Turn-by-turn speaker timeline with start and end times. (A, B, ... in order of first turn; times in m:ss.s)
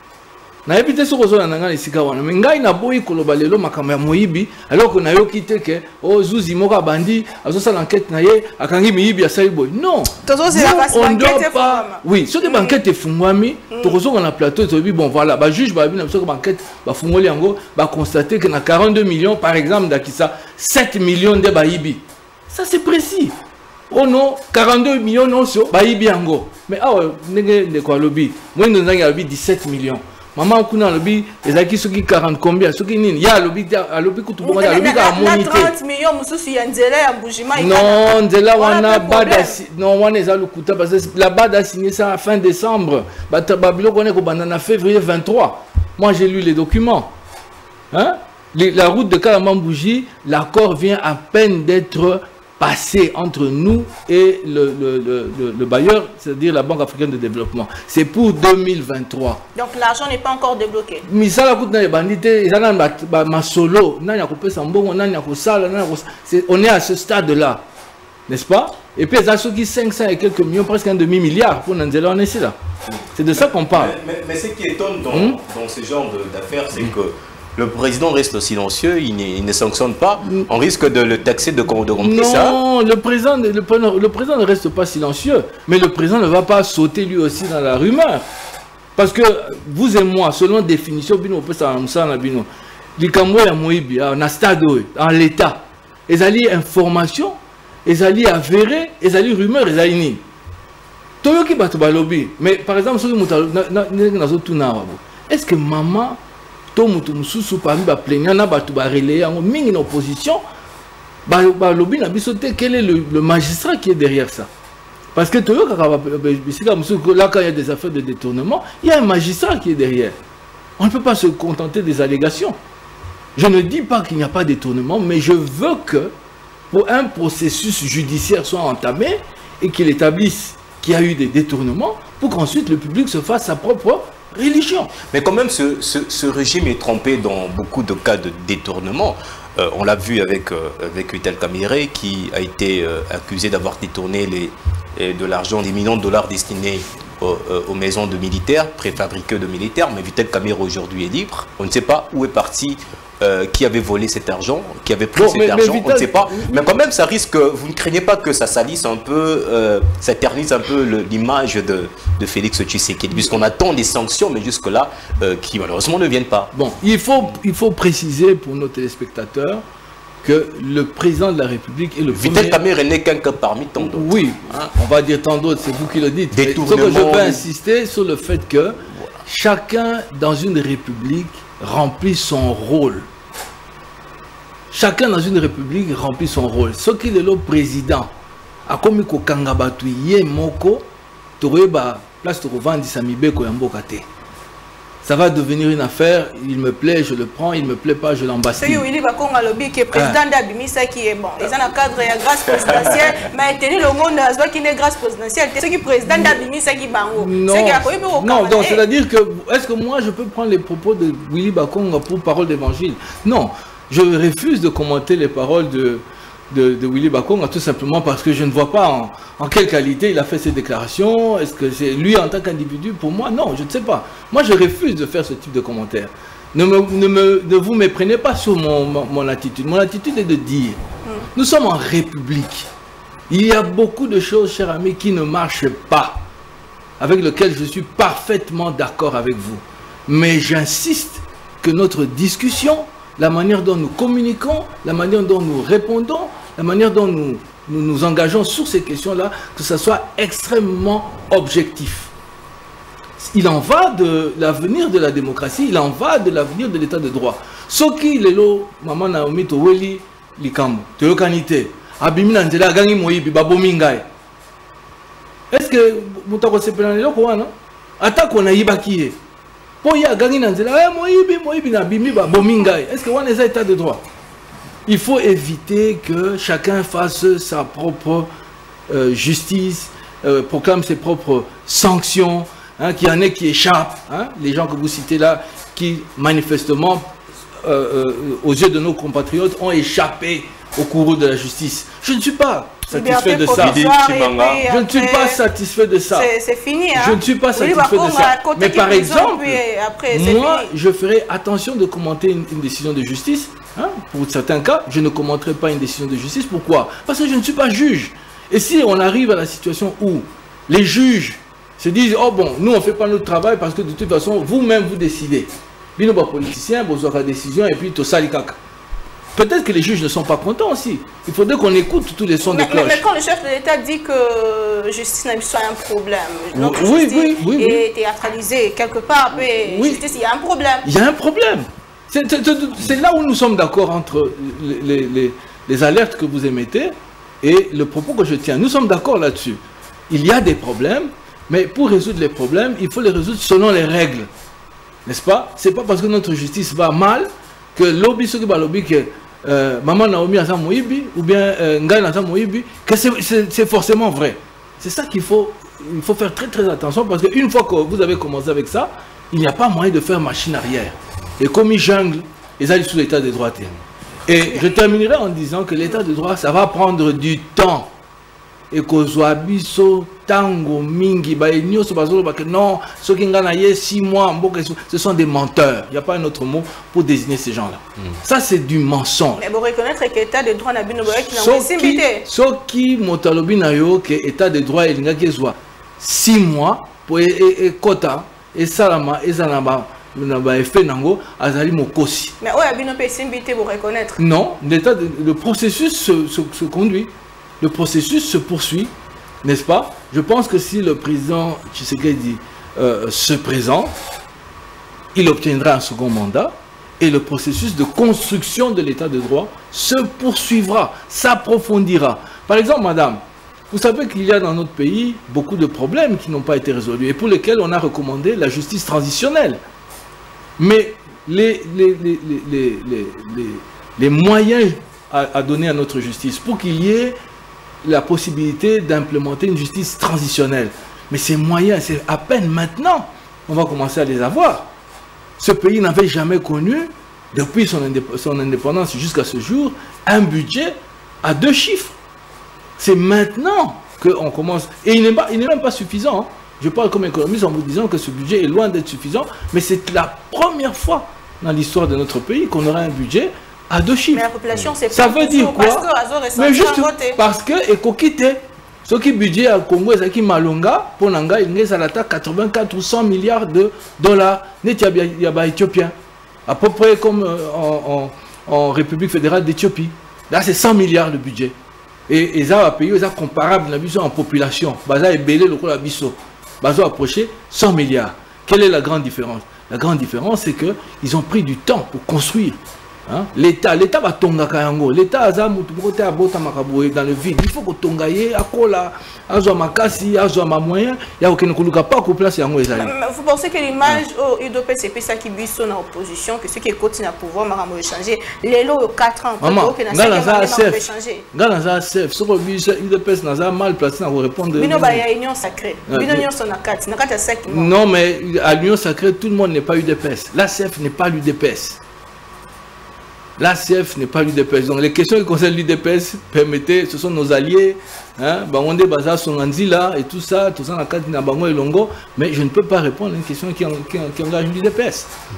0:00.7-0:23.3 A
0:10.2-0:12.8 B
0:13.7-0:14.0 B
0:23.9-0:35.8 A
0:34.4-0:39.6 B
0:37.6-0:47.2 A
0:47.9-0:59.4 A
0:59.6-1:01.1 B
1:01.1-1:07.6 A
1:08.3-1:12.6 A
1:12.9-1:22.6 C
1:13.2-1:14.0 A
1:15.1-1:15.4 A
1:22.0-1:28.2 A
1:29.0-1:40.2 A
1:41.2-1:46.2 A
1:46.7-1:50.4 A
1:51.3-1:54.5 A
1:55.2-2:00.2 A
2:00.8-2:02.6 A
2:03.4-2:06.1 A
2:06.7-2:14.9 A
2:15.0-2:46.5 C
2:35.2-2:36.8 A
2:46.5-2:49.6 A
2:50.2-2:52.6 A
2:52.1-2:54.3 C
2:53.8-3:03.1 A
2:56.3-2:57.5 C
3:04.7-3:08.1 A
3:08.7-3:10.9 A
3:11.4-3:14.1 A
3:15.0-3:18.9 A
3:18.6-3:28.8 B
3:19.9-3:20.2 A
3:22.6-3:23.2 C
3:26.0-3:26.4 A
3:27.1-3:50.8 A
3:51.3-3:52.7 A
3:53.3-3:56.2 A
3:57.0-4:12.1 A
4:13.2-4:24.1 A
4:25.5-4:29.2 A
4:29.8-4:34.0 A
4:34.9-4:38.3 A
4:38.9-4:47.1 A
4:47.6-4:53.9 A
4:52.9-4:55.4 B
4:53.5-4:54.6 C
4:54.6-4:56.3 A
4:56.1-5:00.7 B
4:57.0-5:18.6 A
5:19.4-5:23.1 A
5:22.4-5:30.8 B
5:26.5-5:27.9 A
5:29.4-5:30.1 A
5:30.8-5:44.3 A
5:45.1-6:03.7 A
6:04.3-6:07.9 A
6:08.7-6:19.4 A
6:19.4-6:22.3 B
6:21.1-6:32.3 A
6:32.4-6:34.2 B
6:34.2-6:38.9 A
6:39.4-6:43.9 A
6:45.1-6:59.6 A
7:00.6-7:07.2 A
7:07.8-7:14.7 A
7:15.4-7:22.0 A
7:22.8-7:34.3 A
7:34.1-7:37.2 B
7:34.9-7:45.9 A
7:46.5-7:51.6 A
7:52.1-8:12.9 A
8:12.8-8:21.3 B
8:19.4-8:25.0 A
8:24.6-8:27.7 B
8:25.9-8:26.3 A
8:27.5-8:31.8 A
8:33.4-8:45.1 A